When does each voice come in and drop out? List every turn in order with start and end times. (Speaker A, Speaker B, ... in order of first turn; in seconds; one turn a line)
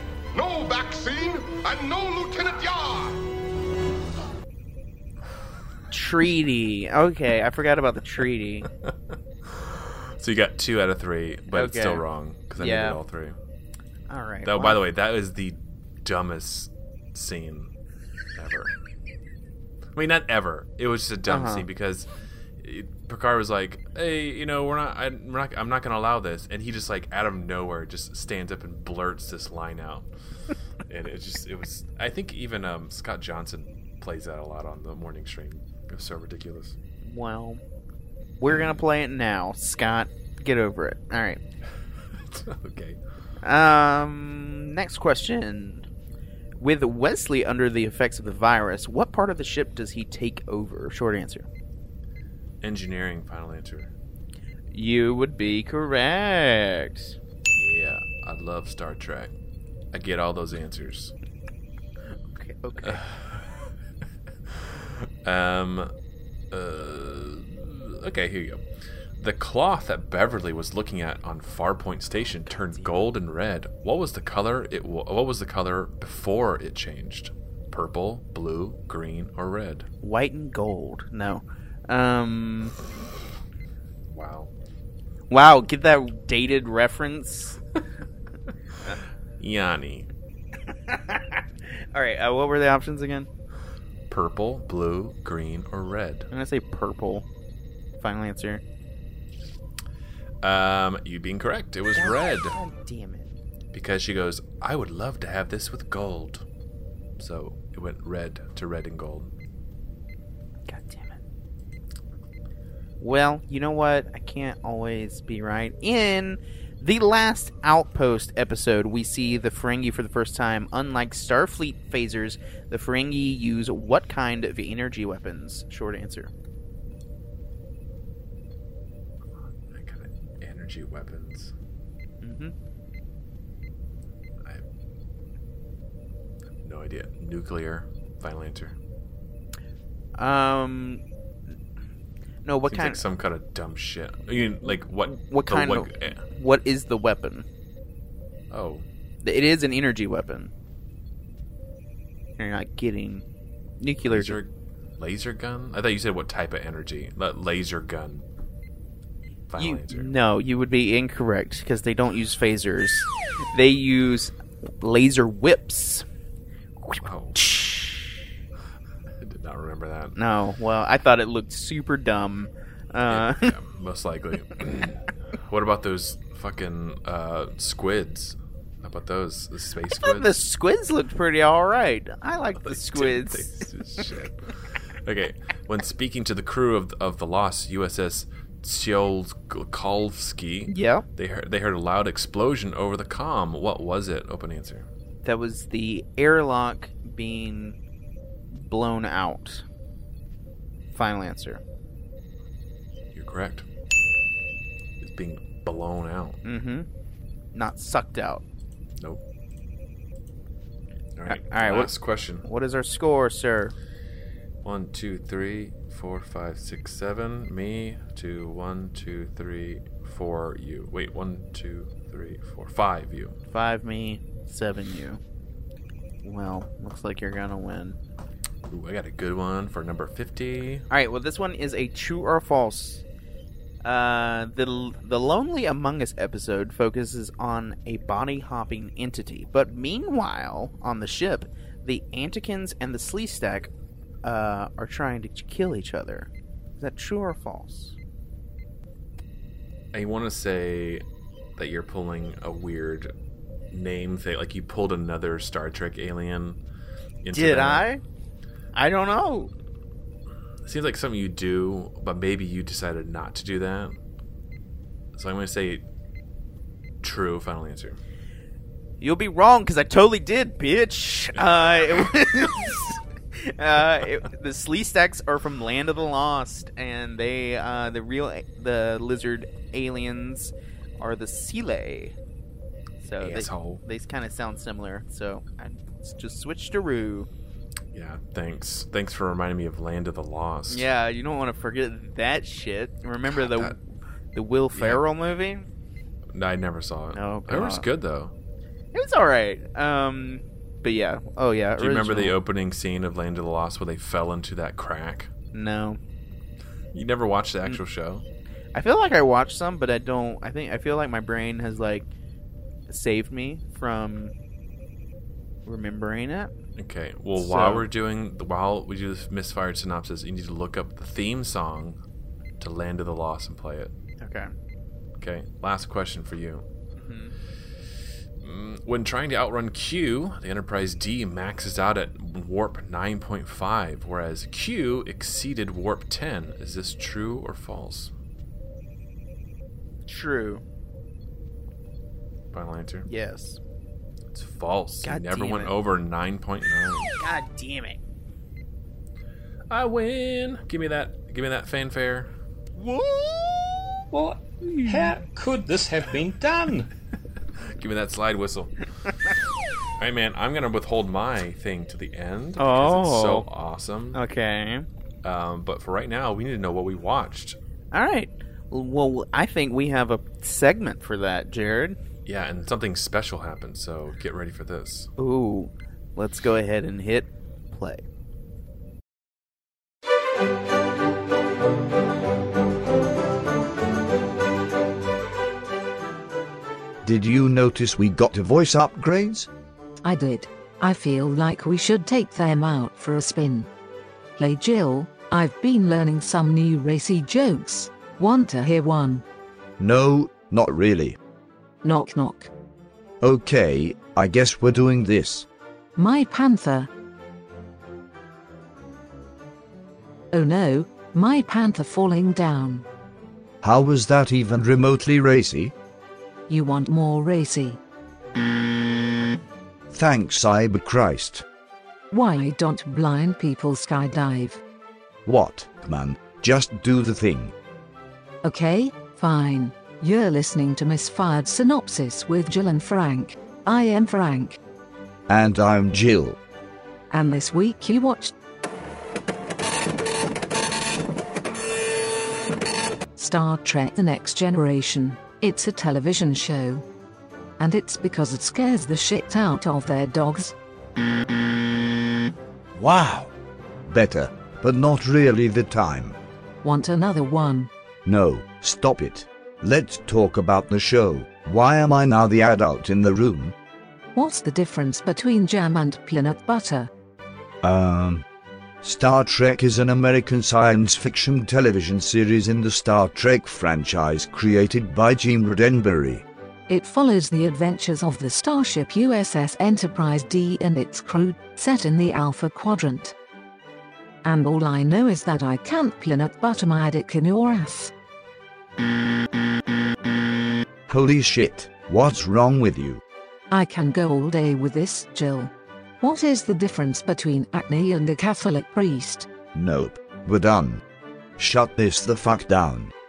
Speaker A: 0.3-3.2
Speaker B: 5.9-8.7
Speaker C: 9.5-13.4
Speaker B: 11.5-12.0
Speaker B: 12.6-13.0
Speaker B: 14.1-14.8
Speaker C: 14.4-17.7
Speaker C: 18.4-18.7
Speaker C: 19.9-22.1
Speaker B: 21.3-21.6
Speaker C: 22.6-30.1
Speaker C: 30.9-36.8
Speaker B: 37.0-37.6
Speaker B: 38.4-41.4
Speaker C: 42.2-43.0
Speaker B: 43.4-45.9
Speaker B: 46.6-51.5
Speaker C: 52.6-53.9
Speaker B: 54.7-57.1
Speaker C: 57.5-59.3
Speaker C: 59.9-61.1
Speaker B: 62.4-63.0
Speaker C: 62.8-63.5
Speaker C: 64.6-65.9
Speaker C: 66.5-68.6
Speaker C: 69.2-79.9
Speaker B: 72.4-73.0
Speaker B: 80.0-82.8
Speaker C: 84.1-84.5
Speaker B: 85.3-87.6
Speaker C: 89.4-90.1
Speaker B: 90.7-93.3
Speaker C: 94.1-96.3
Speaker B: 96.3-97.2
Speaker B: 98.0-98.6
Speaker C: 100.4-102.6
Speaker B: 101.9-103.3
Speaker C: 103.7-106.4
Speaker C: 107.2-109.3
Speaker B: 110.7-111.2
Speaker B: 113.0-126.3
Speaker C: 129.7-131.5
Speaker B: 132.2-132.5
Speaker C: 136.6-138.8
Speaker B: 140.2-141.0
Speaker B: 142.4-143.0
Speaker C: 142.7-146.2
Speaker B: 145.1-147.4
Speaker C: 148.5-148.8
Speaker B: 149.2-150.5
Speaker B: 152.4-153.2
Speaker B: 153.8-154.4
Speaker C: 154.0-158.2
Speaker C: 159.5-160.1
Speaker B: 159.6-166.0
Speaker C: 167.0-167.4
Speaker B: 167.4-168.1
Speaker C: 169.2-170.2
Speaker B: 170.2-173.5
Speaker C: 173.1-180.3
Speaker B: 180.0-184.0
Speaker C: 182.6-184.5
Speaker C: 185.0-194.9
Speaker B: 190.7-191.1
Speaker B: 195.2-197.8
Speaker B: 198.5-199.6
Speaker B: 200.9-201.6
Speaker C: 203.1-203.6
Speaker C: 205.0-206.4
Speaker B: 206.4-206.9
Speaker B: 207.5-208.4
Speaker C: 211.2-212.4
Speaker B: 211.3-211.9
Speaker B: 212.4-213.7
Speaker C: 214.6-223.4
Speaker B: 223.5-225.2
Speaker B: 226.2-228.0
Speaker C: 228.7-230.9
Speaker B: 230.9-233.0
Speaker B: 233.8-243.7
Speaker B: 244.2-247.9
Speaker C: 249.9-251.0
Speaker C: 251.6-253.1
Speaker C: 253.7-256.6
Speaker C: 257.2-257.9
Speaker B: 257.3-258.0
Speaker B: 258.7-259.5
Speaker C: 260.6-264.0
Speaker C: 265.1-265.8
Speaker C: 267.0-268.0
Speaker B: 269.0-282.1
Speaker B: 283.0-287.3
Speaker C: 283.2-283.8
Speaker C: 287.9-290.9
Speaker B: 290.7-293.8
Speaker C: 293.4-293.7
Speaker B: 294.3-295.7
Speaker C: 294.7-295.0
Speaker C: 296.3-298.3
Speaker B: 297.1-297.9
Speaker B: 298.9-302.4
Speaker C: 301.8-305.3
Speaker B: 305.5-306.0
Speaker C: 306.9-308.2
Speaker B: 308.7-312.1
Speaker B: 312.9-314.3
Speaker B: 315.6-316.5
Speaker C: 316.8-322.0
Speaker B: 317.4-317.9
Speaker C: 322.6-323.9
Speaker B: 324.2-324.5
Speaker C: 325.2-326.6
Speaker B: 327.0-327.3
Speaker C: 328.4-338.1
Speaker B: 340.1-340.6
Speaker C: 342.5-343.1
Speaker B: 343.1-343.6
Speaker C: 344.3-347.1
Speaker B: 345.0-345.7
Speaker B: 347.2-348.0
Speaker C: 349.7-352.3
Speaker B: 352.8-353.8
Speaker D: 354.1-356.9
Speaker B: 354.7-355.1
Speaker C: 357.8-358.7
Speaker C: 360.0-364.2
Speaker B: 362.6-363.4
Speaker B: 364.1-364.9
Speaker C: 365.2-367.6
Speaker B: 367.9-372.0
Speaker C: 372.2-375.1
Speaker B: 375.2-378.0
Speaker E: 387.0-389.5
Speaker F: 390.0-393.7
Speaker F: 394.4-399.2
Speaker E: 399.8-401.2
Speaker F: 401.8-402.5
Speaker E: 403.2-405.5
Speaker F: 405.9-406.9
Speaker F: 410.3-412.9
Speaker E: 413.6-415.7
Speaker F: 416.5-417.8
Speaker E: 419.9-421.4
Speaker F: 422.1-424.6
Speaker E: 425.2-427.5
Speaker F: 428.4-434.6
Speaker E: 435.3-436.4
Speaker F: 437.1-438.3
Speaker F: 443.1-446.8
Speaker F: 447.6-450.6
Speaker E: 452.7-453.3
Speaker E: 453.9-456.2
Speaker F: 456.6-457.7
Speaker E: 458.1-463.6
Speaker F: 464.1-466.9
Speaker E: 467.6-468.2
Speaker E: 468.8-476.2
Speaker F: 476.7-483.1
Speaker F: 484.2-487.9
Speaker E: 490.9-493.0
Speaker F: 493.5-499.3
Speaker E: 499.5-500.8
Speaker E: 501.4-502.9